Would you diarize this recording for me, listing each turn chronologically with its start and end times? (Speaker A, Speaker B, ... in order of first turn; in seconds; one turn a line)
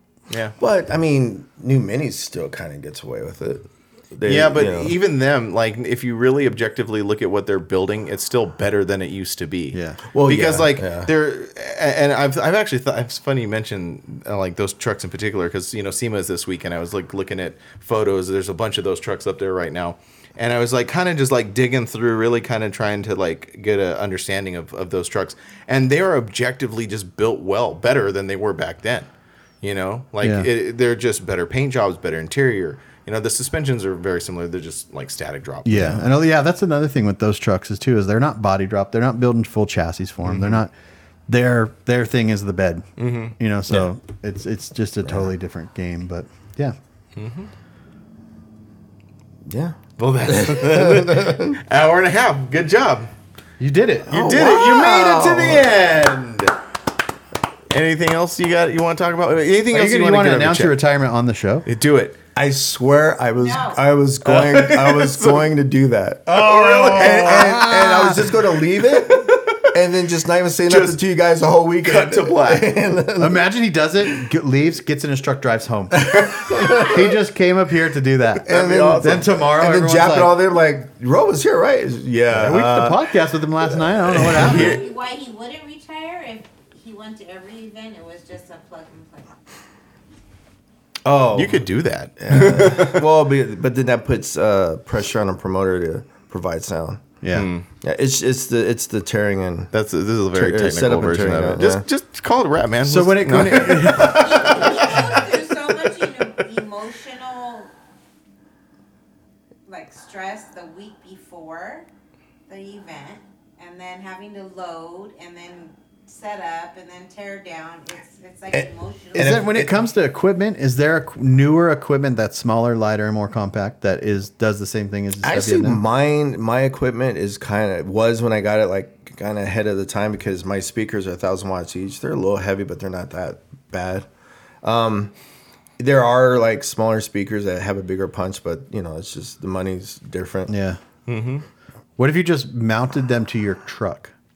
Speaker A: 0.3-0.5
Speaker B: 0.6-5.0
Speaker A: 4.2-29.1
Speaker C: 9.7-10.0
Speaker B: 10.1-11.1
Speaker A: 29.6-36.0
Speaker C: 30.2-30.5
Speaker C: 35.6-40.7
Speaker A: 40.2-40.6
Speaker C: 41.3-42.9
Speaker A: 43.0-43.3
Speaker C: 43.4-46.8
Speaker B: 45.0-45.3
Speaker A: 47.1-47.5
Speaker B: 49.5-51.6
Speaker A: 50.0-53.1
Speaker C: 53.6-54.3
Speaker B: 54.1-55.8
Speaker A: 54.1-56.5
Speaker A: 57.7-60.8
Speaker C: 59.7-61.6
Speaker A: 61.6-62.2
Speaker B: 62.4-73.4
Speaker D: 63.4-63.8
Speaker A: 64.2-65.5
Speaker C: 66.3-68.2
Speaker A: 66.5-67.5
Speaker A: 68.8-69.7
Speaker A: 70.7-71.0
Speaker A: 71.8-72.8
Speaker C: 73.2-80.3
Speaker B: 76.0-77.1
Speaker B: 78.4-83.0
Speaker C: 82.3-84.8
Speaker B: 83.7-84.5
Speaker A: 84.3-84.9
Speaker D: 84.4-89.3
Speaker B: 91.0-91.6
Speaker A: 91.3-93.0
Speaker B: 92.2-97.0
Speaker C: 97.2-97.5
Speaker A: 97.3-97.7
Speaker B: 97.8-99.7
Speaker A: 99.7-105.3
Speaker B: 100.3-101.8
Speaker C: 102.8-104.8
Speaker D: 104.1-107.7
Speaker D: 109.7-111.9
Speaker D: 112.5-119.5
Speaker B: 118.5-119.7
Speaker C: 119.1-125.8
Speaker B: 125.2-134.1
Speaker B: 134.6-135.1
Speaker B: 135.8-140.5
Speaker C: 140.5-140.8
Speaker A: 141.1-141.4
Speaker C: 142.0-144.1